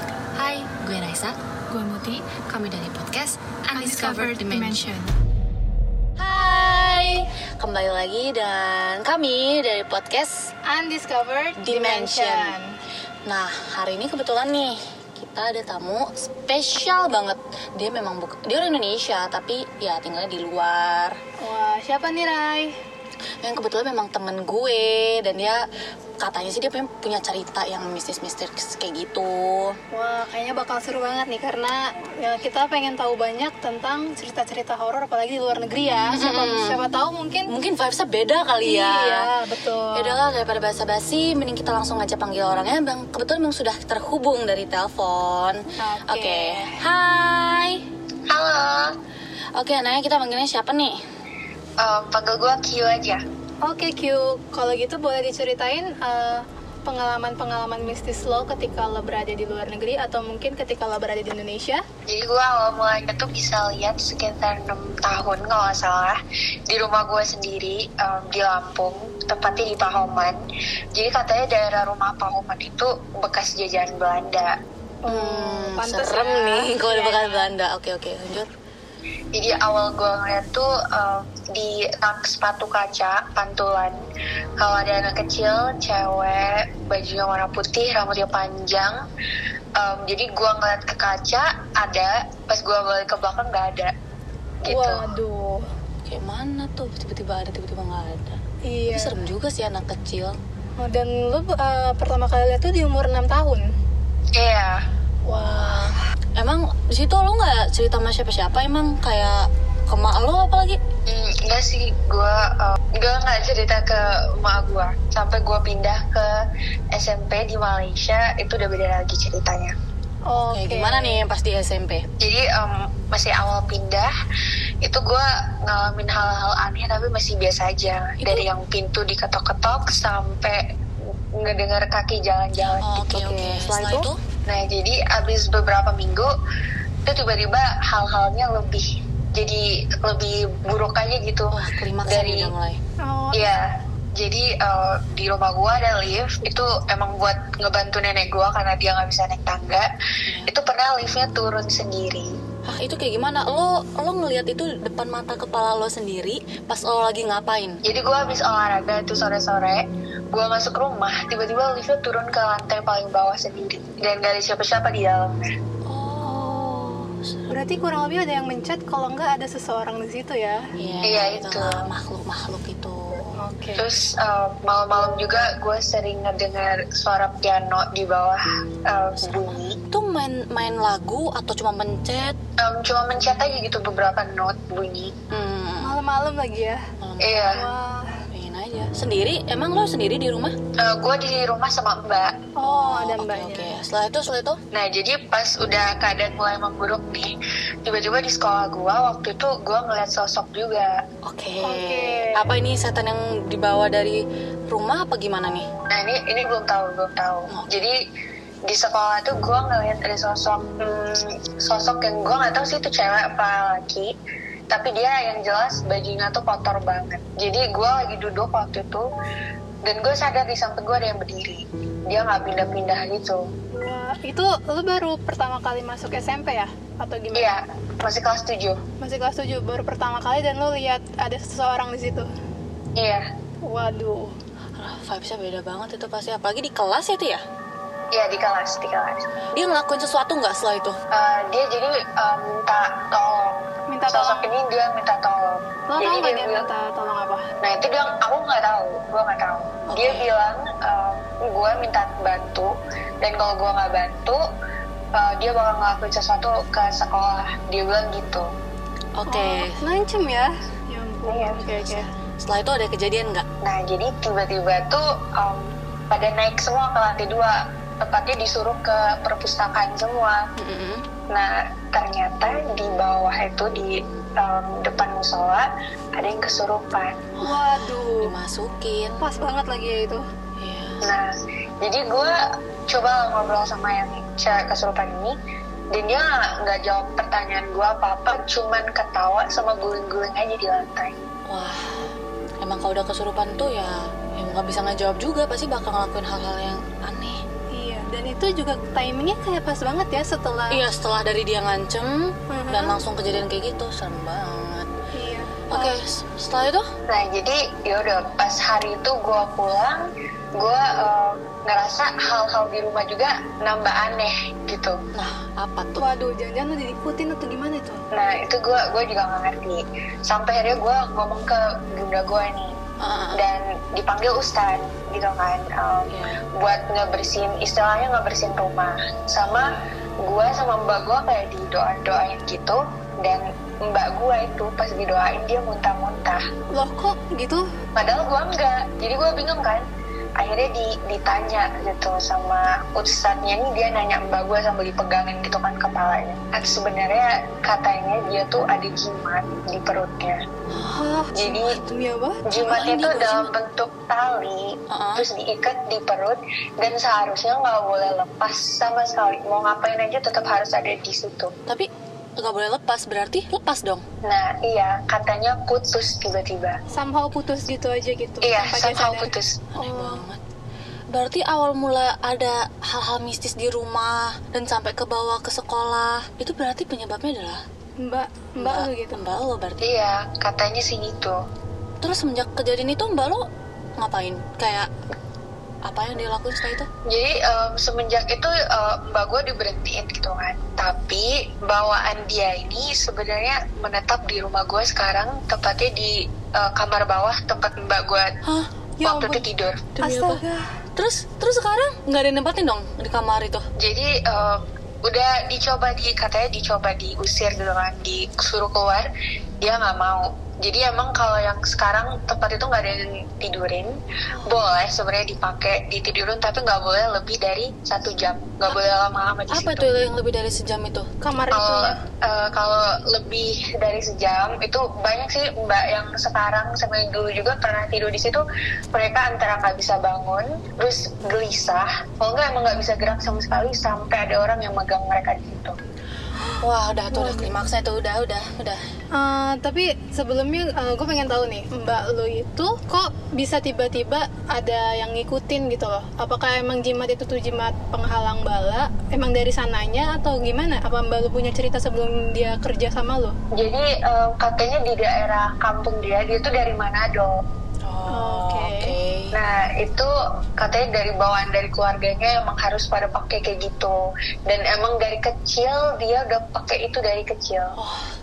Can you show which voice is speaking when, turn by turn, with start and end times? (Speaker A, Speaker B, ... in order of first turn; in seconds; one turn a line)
Speaker A: 0.3-1.4
Speaker B: 1.7-2.1
Speaker A: 2.0-4.9
Speaker B: 3.7-5.1
Speaker A: 6.2-10.5
Speaker B: 10.6-12.8
Speaker A: 11.6-12.6
Speaker A: 13.2-21.1
Speaker B: 21.4-22.7
Speaker A: 23.4-25.6
Speaker A: 26.2-29.8
Speaker B: 29.9-37.5
Speaker A: 36.1-36.8
Speaker A: 37.5-39.3
Speaker B: 38.6-40.2
Speaker A: 39.9-47.8
Speaker B: 45.8-46.8
Speaker C: 48.3-48.9
Speaker A: 49.5-51.0
Speaker C: 51.8-53.2
Speaker B: 53.6-61.8
Speaker C: 62.1-66.2
Speaker C: 66.7-70.4
Speaker C: 70.9-74.5
Speaker B: 75.0-77.5
Speaker A: 75.1-78.5
Speaker C: 79.3-84.0
Speaker C: 84.6-89.0
Speaker C: 89.8-93.9
Speaker C: 94.6-95.1
Speaker B: 94.7-95.6
Speaker A: 96.0-100.4
Speaker B: 98.6-99.2
Speaker B: 100.8-103.7
Speaker C: 104.3-104.8
Speaker B: 105.2-106.0
Speaker A: 105.3-110.8
Speaker C: 111.1-116.3
Speaker C: 116.9-119.7
Speaker B: 120.2-121.2
Speaker A: 120.4-122.0
Speaker C: 122.2-124.1
Speaker C: 124.8-130.6
Speaker A: 128.2-128.4
Speaker C: 131.4-136.3
Speaker A: 132.8-134.2
Speaker C: 137.1-142.5
Speaker A: 141.5-142.8
Speaker B: 143.0-143.5
Speaker C: 143.3-143.6
Speaker C: 144.2-149.9
Speaker C: 150.4-152.3
Speaker A: 152.7-157.8
Speaker C: 157.8-165.3
Speaker A: 165.8-167.7
Speaker B: 166.2-166.9
Speaker B: 167.5-170.7
Speaker A: 170.8-173.3
Speaker C: 171.0-171.8
Speaker B: 173.3-173.8
Speaker C: 173.8-179.8
Speaker A: 179.2-182.3
Speaker C: 182.6-185.1
Speaker A: 185.3-186.0
Speaker B: 185.8-186.8
Speaker A: 187.0-187.6
Speaker C: 187.2-187.7
Speaker B: 187.5-188.2
Speaker A: 188.3-190.6
Speaker C: 190.8-192.3
Speaker B: 192.6-193.7
Speaker A: 192.6-194.6
Speaker C: 194.7-200.9
Speaker A: 201.2-205.7
Speaker B: 201.6-202.5
Speaker C: 205.9-208.0
Speaker C: 208.7-214.1
Speaker C: 214.7-219.0
Speaker C: 219.8-223.4
Speaker B: 223.7-227.5
Speaker C: 227.3-228.8
Speaker B: 229.0-232.3
Speaker C: 232.9-233.2
Speaker B: 233.6-234.3
Speaker A: 234.8-237.4
Speaker C: 238.1-239.2
Speaker A: 239.5-241.0
Speaker C: 241.1-246.7
Speaker B: 243.9-244.5
Speaker B: 245.9-247.4
Speaker C: 247.6-254.4
Speaker A: 249.9-250.3
Speaker C: 255.1-258.5
Speaker A: 259.1-259.8
Speaker B: 259.3-262.1
Speaker C: 261.3-261.6
Speaker A: 261.6-263.4
Speaker C: 263.6-270.4
Speaker A: 270.6-271.1
Speaker C: 271.3-277.2
Speaker A: 277.4-279.2
Speaker B: 277.4-278.3
Speaker B: 279.2-280.2
Speaker A: 280.6-281.1
Speaker C: 281.0-281.3
Speaker C: 281.8-282.3
Speaker C: 282.9-285.4
Speaker C: 285.9-291.2
Speaker A: 291.5-292.1
Speaker A: 292.6-297.4
Speaker B: 297.7-300.8
Speaker A: 300.7-304.9
Speaker B: 302.5-302.9
Speaker B: 305.1-305.9
Speaker A: 305.7-306.9
Speaker C: 307.1-310.0
Speaker C: 310.6-315.0
Speaker A: 315.1-316.1
Speaker B: 316.0-318.0
Speaker C: 318.1-322.7
Speaker A: 323.0-323.4
Speaker C: 323.3-329.7
Speaker A: 326.1-326.4
Speaker C: 330.2-336.4
Speaker B: 336.7-337.7
Speaker C: 337.9-339.8
Speaker C: 340.4-350.4
Speaker B: 350.8-352.5
Speaker C: 351.3-351.8
Speaker C: 352.5-361.5
Speaker A: 352.5-353.5
Speaker A: 354.9-355.3
Speaker A: 361.7-364.0
Speaker C: 364.2-366.8
Speaker B: 366.9-370.2
Speaker C: 368.4-369.6
Speaker A: 369.7-370.4
Speaker A: 371.1-377.6
Speaker B: 378.0-379.2
Speaker A: 378.6-379.8
Speaker C: 379.8-381.4
Speaker A: 382.0-383.4
Speaker A: 384.0-384.9
Speaker A: 385.8-386.9
Speaker C: 387.1-398.3
Speaker A: 398.4-398.7
Speaker B: 399.0-399.4
Speaker C: 399.0-399.9
Speaker A: 399.9-400.4
Speaker B: 400.0-400.8
Speaker A: 400.9-403.6
Speaker C: 403.8-409.1
Speaker C: 409.6-419.9
Speaker A: 419.5-421.1
Speaker B: 421.2-422.0
Speaker C: 421.5-428.4
Speaker C: 428.9-435.8
Speaker B: 436.4-437.5
Speaker A: 436.6-438.8
Speaker B: 439.1-453.3
Speaker C: 453.5-457.4
Speaker A: 457.8-459.3
Speaker B: 458.1-458.9
Speaker C: 459.3-467.8
Speaker A: 467.8-468.1